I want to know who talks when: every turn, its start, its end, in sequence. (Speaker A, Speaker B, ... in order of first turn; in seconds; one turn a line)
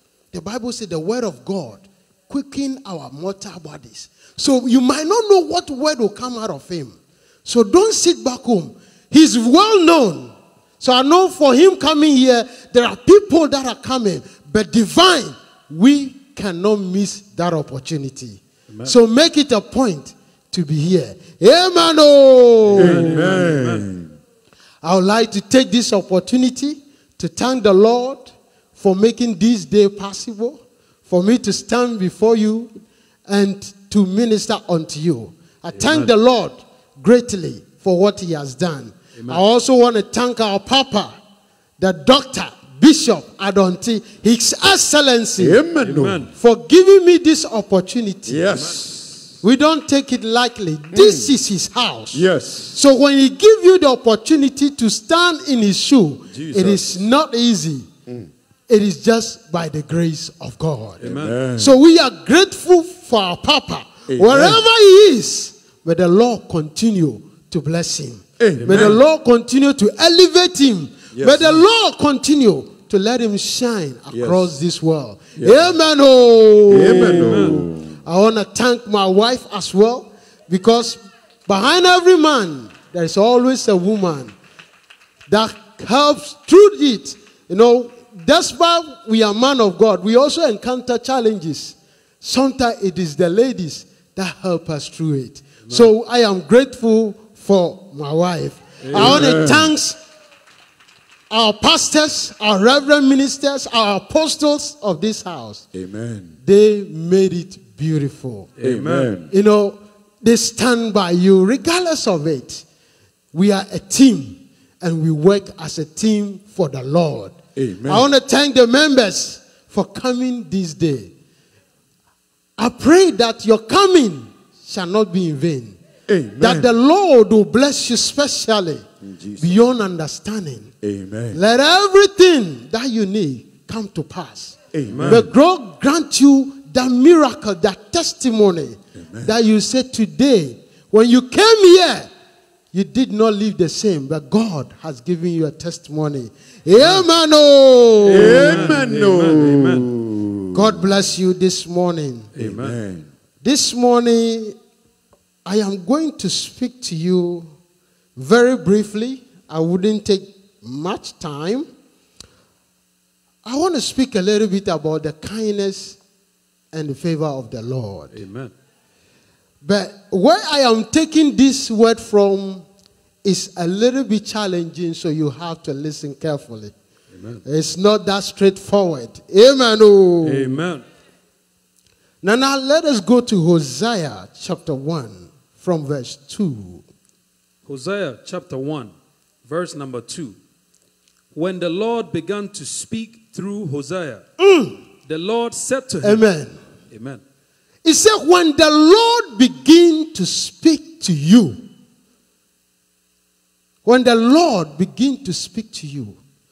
Speaker A: 0.3-23.1
Speaker B: 18.7-19.0
Speaker B: 22.7-23.9
Speaker C: 22.8-24.1
Speaker A: 24.8-32.7
Speaker A: 33.3-41.1
Speaker B: 35.7-36.1
Speaker B: 39.1-39.4
Speaker A: 41.8-45.6
Speaker C: 45.4-46.3
Speaker B: 45.8-46.3
Speaker A: 46.4-48.5
Speaker C: 48.3-49.4
Speaker B: 48.5-48.8
Speaker A: 49.4-57.9
Speaker C: 50.9-51.3
Speaker C: 52.1-52.8
Speaker C: 56.3-57.0
Speaker A: 58.7-61.0
Speaker B: 61.0-61.4
Speaker C: 61.0-61.8
Speaker A: 61.5-77.5
Speaker C: 64.1-64.6
Speaker C: 68.4-69.0
Speaker B: 68.6-69.0
Speaker C: 71.1-71.7
Speaker C: 74.1-74.5
Speaker C: 75.4-75.7
Speaker C: 76.7-78.0
Speaker B: 76.8-77.6
Speaker A: 78.0-84.3
Speaker A: 85.3-100.0
Speaker B: 95.6-95.9
Speaker B: 98.8-99.3
Speaker C: 99.0-99.7
Speaker A: 101.3-105.7
Speaker C: 105.7-106.4
Speaker A: 106.4-108.5
Speaker B: 108.6-109.2
Speaker C: 108.6-109.3
Speaker A: 109.3-112.6
Speaker A: 113.3-121.1
Speaker C: 117.6-118.1
Speaker A: 122.6-125.8
Speaker C: 126.1-126.7
Speaker A: 126.4-128.8
Speaker C: 129.0-129.6
Speaker A: 129.4-130.7
Speaker C: 130.8-131.4
Speaker A: 131.3-142.1
Speaker C: 134.7-135.3
Speaker B: 134.9-135.3
Speaker C: 139.0-139.3
Speaker A: 142.7-148.7
Speaker B: 146.8-147.1
Speaker C: 148.1-150.8
Speaker B: 148.1-149.9
Speaker A: 150.5-152.3
Speaker C: 152.4-153.1
Speaker B: 152.4-152.8
Speaker A: 153.4-154.6
Speaker A: 155.5-157.5
Speaker A: 158.2-161.7
Speaker A: 163.4-166.0
Speaker A: 166.7-168.2
Speaker B: 168.1-168.5
Speaker A: 169.6-172.7
Speaker A: 173.2-176.7
Speaker B: 177.1-177.4
Speaker A: 177.4-180.6
Speaker B: 180.2-180.9
Speaker A: 182.2-186.8
Speaker B: 187.7-188.9
Speaker B: 189.4-190.4
Speaker B: 191.3-194.2
Speaker A: 194.4-194.8
Speaker B: 195.0-196.2
Speaker A: 196.0-196.6
Speaker B: 196.9-197.2
Speaker A: 197.8-201.6
Speaker A: 203.8-206.2